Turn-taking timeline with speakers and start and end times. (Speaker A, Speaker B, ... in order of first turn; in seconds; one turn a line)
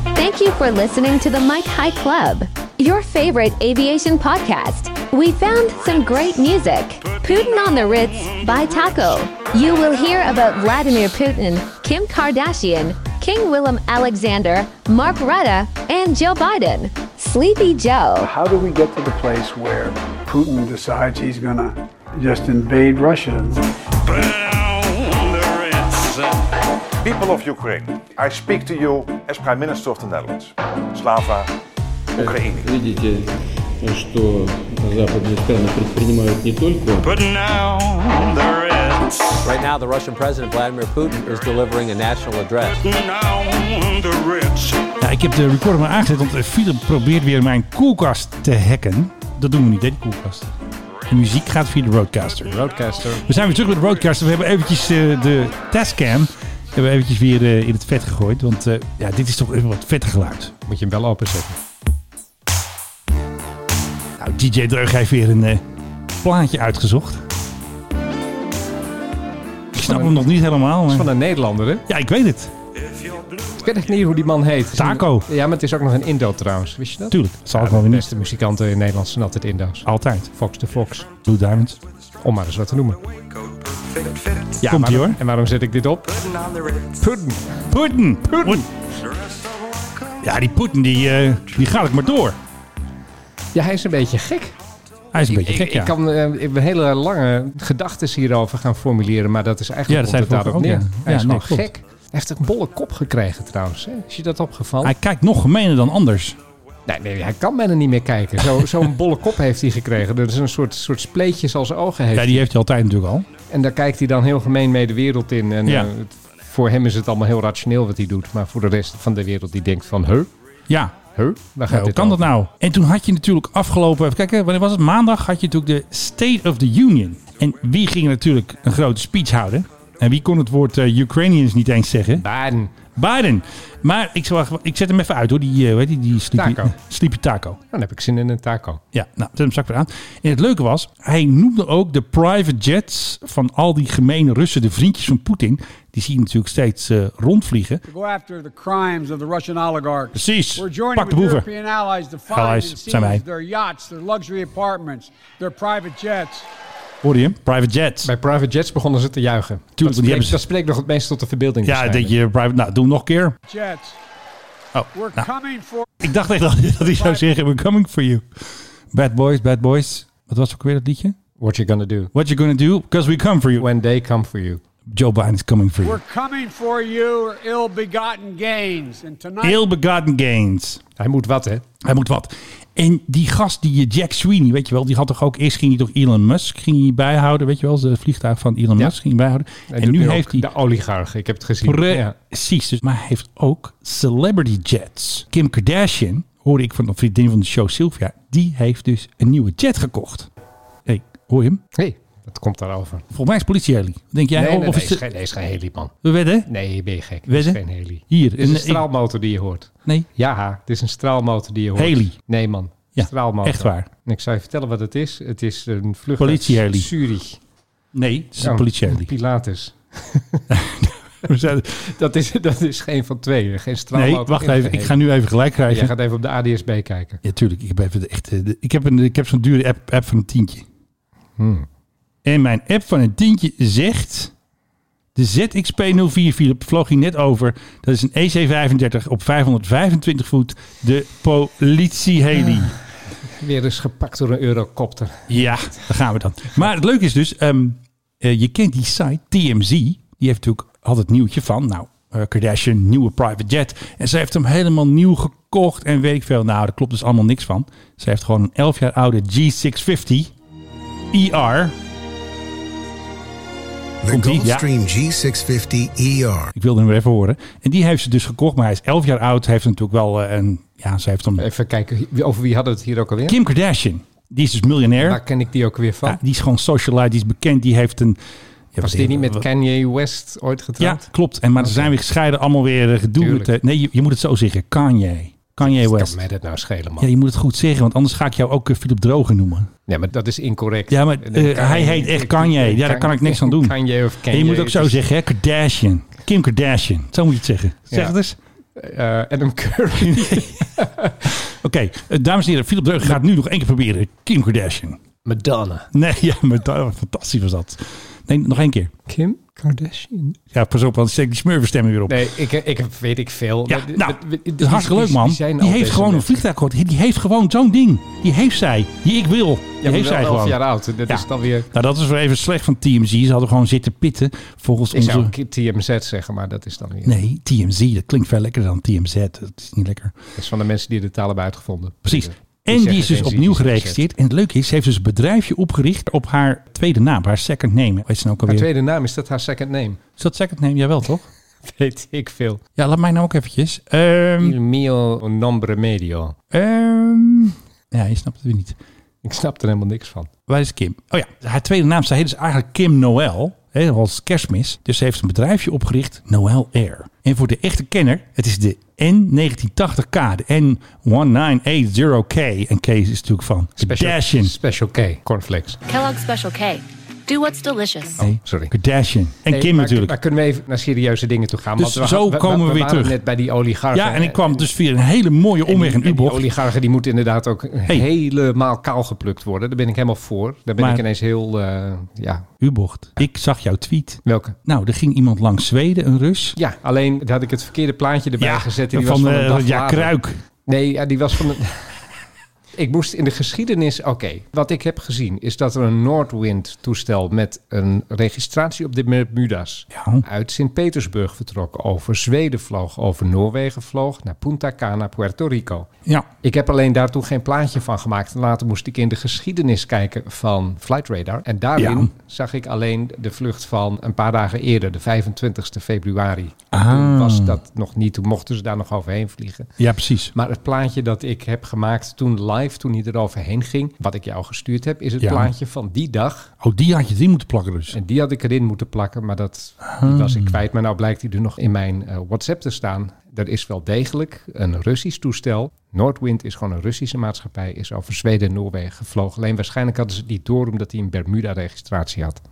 Speaker A: 0.1-18.3
Speaker B: 7.0-9.2
Speaker C: 18.2-23.7
Speaker B: 24.0-26.5
Speaker D: 27.0-31.5
Speaker E: 32.2-37.2
Speaker D: 32.2-32.7
Speaker B: 37.0-39.5
Speaker F: 39.5-42.8
Speaker B: 42.6-44.9
Speaker G: 45.0-50.5
Speaker G: 51.1-52.6
Speaker H: 52.5-53.3
Speaker G: 53.1-60.5
Speaker H: 60.7-61.5
Speaker G: 64.2-65.6
Speaker G: 66.2-67.2
Speaker G: 69.7-71.1
Speaker H: 69.8-70.3
Speaker H: 70.9-71.8
Speaker G: 71.9-72.5
Speaker B: 72.9-73.5
Speaker H: 73.5-81.1
Speaker G: 74.7-75.3
Speaker G: 77.1-78.1
Speaker G: 79.9-80.3
Speaker G: 81.2-81.8
Speaker H: 82.2-83.0
Speaker B: 83.2-84.6
Speaker H: 84.6-86.2
Speaker G: 84.6-85.2
Speaker B: 86.2-86.9
Speaker H: 87.0-87.5
Speaker G: 87.7-88.7
Speaker H: 88.3-88.7
Speaker B: 89.1-89.9
Speaker G: 90.2-92.4
Speaker H: 93.5-94.5
Speaker G: 95.1-95.9
Speaker H: 95.2-105.0
Speaker G: 99.9-101.7
Speaker G: 104.8-106.4
Speaker H: 106.9-112.5
Speaker G: 112.1-113.3
Speaker H: 113.5-120.3
Speaker G: 115.7-115.9
Speaker G: 120.7-121.0
Speaker H: 121.1-122.3
Speaker G: 121.7-132.3
Speaker H: 132.2-132.8
Speaker G: 133.0-137.6
Speaker H: 136.4-136.7
Speaker H: 137.7-138.8
Speaker G: 138.9-147.8
Speaker C: 147.9-156.5
Speaker G: 150.1-151.5
Speaker G: 152.3-153.2
Speaker G: 157.0-158.1
Speaker H: 158.0-162.1
Speaker G: 159.8-160.4
Speaker G: 161.6-163.4
Speaker C: 163.5-164.0
Speaker G: 164.7-165.3
Speaker C: 164.9-165.9
Speaker G: 166.0-171.2
Speaker C: 166.9-167.2
Speaker H: 171.4-172.1
Speaker G: 172.1-173.7
Speaker H: 173.6-174.6
Speaker G: 174.9-176.0
Speaker C: 175.8-179.6
Speaker G: 179.4-180.8
Speaker H: 181.0-181.6
Speaker G: 181.8-190.5
Speaker H: 189.7-192.2
Speaker G: 191.6-200.3
Speaker G: 200.9-201.6
Speaker H: 201.7-203.1
Speaker G: 203.1-205.1
Speaker H: 204.3-205.9
Speaker G: 206.0-206.5
Speaker H: 206.4-217.4
Speaker G: 207.3-208.9
Speaker G: 211.8-212.2
Speaker G: 213.0-213.9
Speaker G: 216.2-216.9
Speaker G: 217.9-219.1
Speaker H: 218.4-220.5
Speaker G: 220.5-221.9
Speaker H: 221.7-225.0
Speaker G: 223.9-225.9
Speaker H: 225.7-227.2
Speaker G: 227.2-230.7
Speaker H: 231.4-231.7
Speaker G: 232.2-234.3
Speaker G: 235.2-242.8
Speaker H: 243.2-245.8
Speaker G: 245.3-260.3
Speaker G: 261.1-261.8
Speaker I: 264.0-266.5
Speaker G: 264.1-264.7
Speaker G: 266.5-271.4
Speaker H: 271.4-273.4
Speaker G: 273.3-275.2
Speaker H: 275.0-276.2
Speaker G: 276.1-278.2
Speaker G: 278.7-279.5
Speaker H: 278.8-281.1
Speaker G: 280.8-286.2
Speaker H: 281.6-281.9
Speaker H: 283.2-283.5
Speaker H: 285.6-287.1
Speaker G: 287.0-289.7
Speaker H: 289.9-295.0
Speaker G: 290.9-298.4
Speaker H: 298.8-301.3
Speaker G: 300.0-300.7
Speaker G: 301.3-305.0
Speaker H: 305.2-305.9
Speaker G: 305.9-308.9
Speaker H: 309.1-310.4
Speaker G: 310.5-312.3
Speaker H: 312.1-316.4
Speaker G: 313.7-325.3
Speaker H: 319.8-321.7
Speaker H: 324.9-327.2
Speaker G: 327.1-330.1
Speaker H: 330.4-334.0
Speaker G: 332.1-338.7
Speaker H: 338.5-340.0
Speaker G: 340.2-341.3
Speaker H: 341.7-342.6
Speaker G: 342.8-344.6
Speaker H: 344.4-346.4
Speaker G: 346.5-348.8
Speaker H: 349.2-350.3
Speaker G: 350.5-364.5
Speaker H: 363.8-365.8
Speaker B: 365.9-368.2
Speaker H: 368.2-368.7
Speaker G: 368.2-370.2
Speaker H: 369.5-374.7
Speaker G: 371.8-373.2
Speaker G: 373.9-376.5
Speaker H: 375.7-382.5
Speaker G: 380.8-381.0
Speaker G: 382.6-386.6
Speaker H: 384.2-384.6
Speaker H: 386.6-390.1
Speaker G: 388.4-390.4
Speaker H: 390.7-392.0
Speaker H: 392.8-405.9
Speaker G: 399.9-400.2
Speaker H: 406.4-419.7
Speaker G: 411.8-412.1
Speaker G: 416.7-417.6
Speaker G: 419.8-420.3
Speaker H: 420.3-426.5
Speaker G: 425.2-425.5
Speaker G: 426.6-428.0
Speaker H: 427.9-442.4
Speaker G: 429.9-430.6